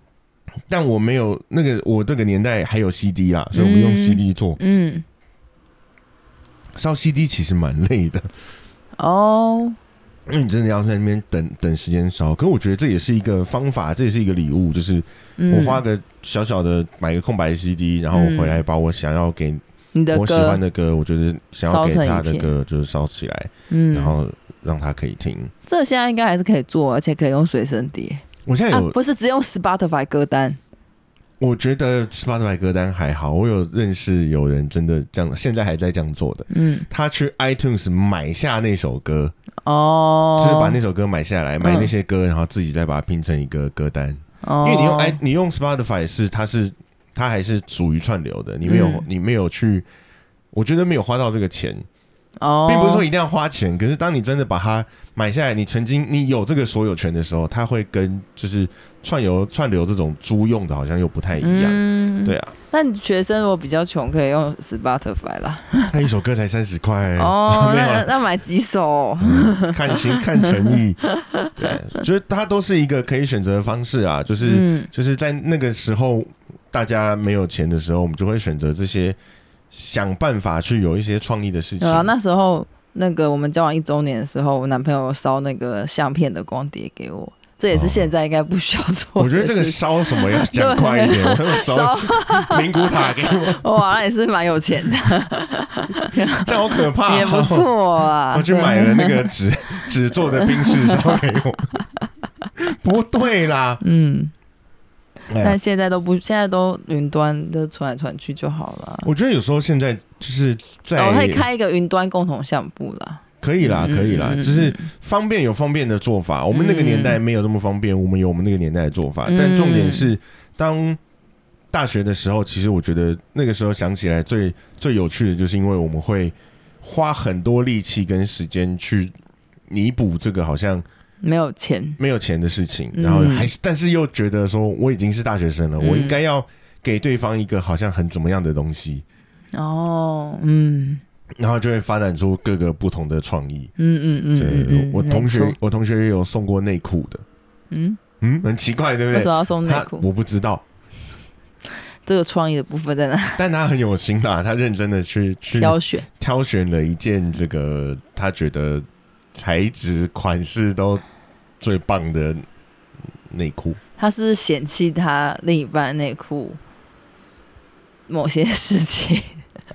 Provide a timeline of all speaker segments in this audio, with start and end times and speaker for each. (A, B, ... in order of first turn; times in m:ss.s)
0:00.7-0:04.6 A
0:03.5-0:05.0 B
0:06.8-0:08.3 A
0:09.0-0:09.8 B
0:10.3-0:25.5 A
0:15.4-0:15.8 B
0:18.1-0:18.6 B
0:19.9-0:20.6 B
0:21.6-0:22.5 B
0:23.7-0:24.2 B
0:25.7-0:30.6 B
0:28.5-0:29.0 A
0:31.4-0:39.3 A
0:36.5-0:36.9 B
0:39.6-0:40.8 B
0:40.4-0:49.9 A
0:41.6-0:41.9 B
0:44.4-0:45.2 B
0:48.6-0:49.0 B
0:50.5-0:51.9 A
0:52.4-0:53.1 B
0:52.7-1:02.5 A
1:01.4-1:06.0 B
1:05.9-1:08.1 A
1:07.2-1:11.7 B
1:09.2-1:11.0 A
1:11.6-1:19.2 A
1:14.4-1:14.9 B
1:19.7-1:22.1 A
1:21.8-1:39.3 B
1:27.7-1:28.1 A
1:29.2-1:33.7 A
1:36.1-1:37.7 A
1:38.3-1:41.8 A
1:40.4-1:41.2 B
1:42.6-1:43.8 A
1:43.8-1:44.3 B
1:45.3-1:45.6 A
1:45.4-1:49.1 B
1:49.0-1:51.5 A
1:51.0-1:54.9 B
1:53.4-2:01.0 A
1:56.5-1:57.2 B
1:59.3-2:00.1 B
2:01.7-2:09.1 A
2:09.7-2:10.8 A
2:11.2-2:12.0 B
2:12.0-2:19.0 A
2:13.0-2:13.5 B
2:15.8-2:16.2 B
2:19.5-2:21.0 B
2:21.4-2:23.7 A
2:23.8-2:25.6 B
2:24.4-2:27.2 A
2:27.7-2:28.0 B
2:28.2-2:30.6 A
2:29.1-2:30.0 B
2:32.0-2:33.4 B
2:33.4-2:41.0 A
2:35.5-2:36.1 B
2:41.6-2:42.4 A
2:43.3-2:43.8 A
2:44.0-2:46.6 B
2:48.1-2:49.4 B